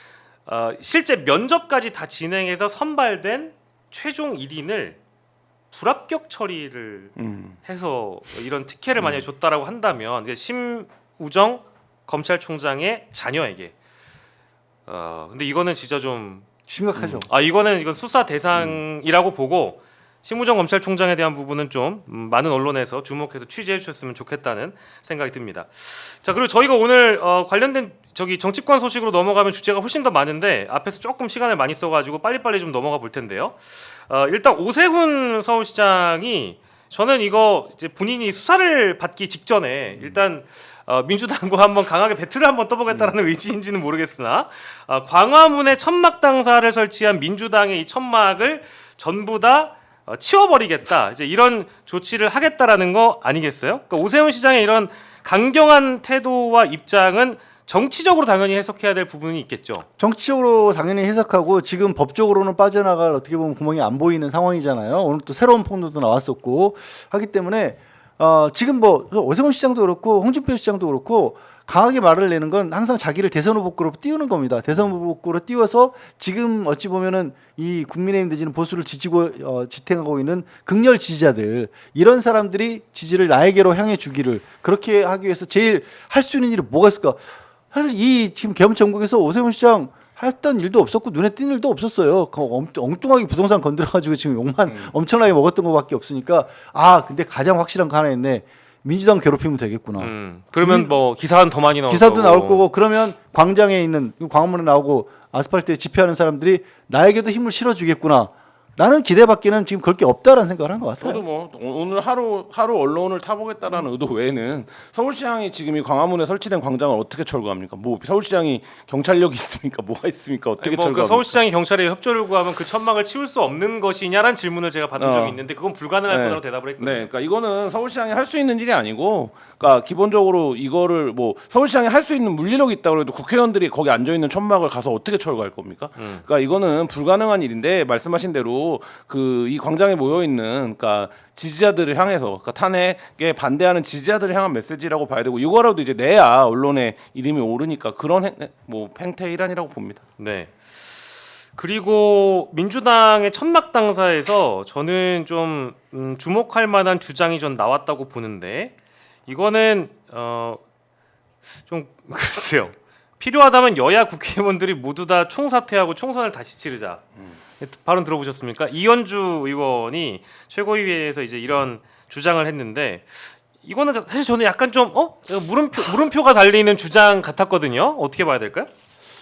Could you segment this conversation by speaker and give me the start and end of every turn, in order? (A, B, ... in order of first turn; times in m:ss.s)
0:00.4-0:05.0 A
0:05.7-0:13.7 A
0:07.2-0:07.6 B
0:14.9-0:16.4 A
0:16.7-0:17.3 C
0:17.0-0:17.2 B
0:17.3-0:59.8 A
1:00.0-1:40.9 C
1:40.0-1:42.7 A
1:41.9-1:51.2 C
1:51.0-2:01.4 B
2:00.6-2:07.1 A
2:05.0-2:05.4 B
2:06.1-2:30.0 B
2:16.0-2:16.2 A
2:30.2-2:30.5 A
2:31.5-2:38.7 A
2:39.3-2:40.6 A
2:41.6-2:47.0 A
2:47.6-2:58.7 A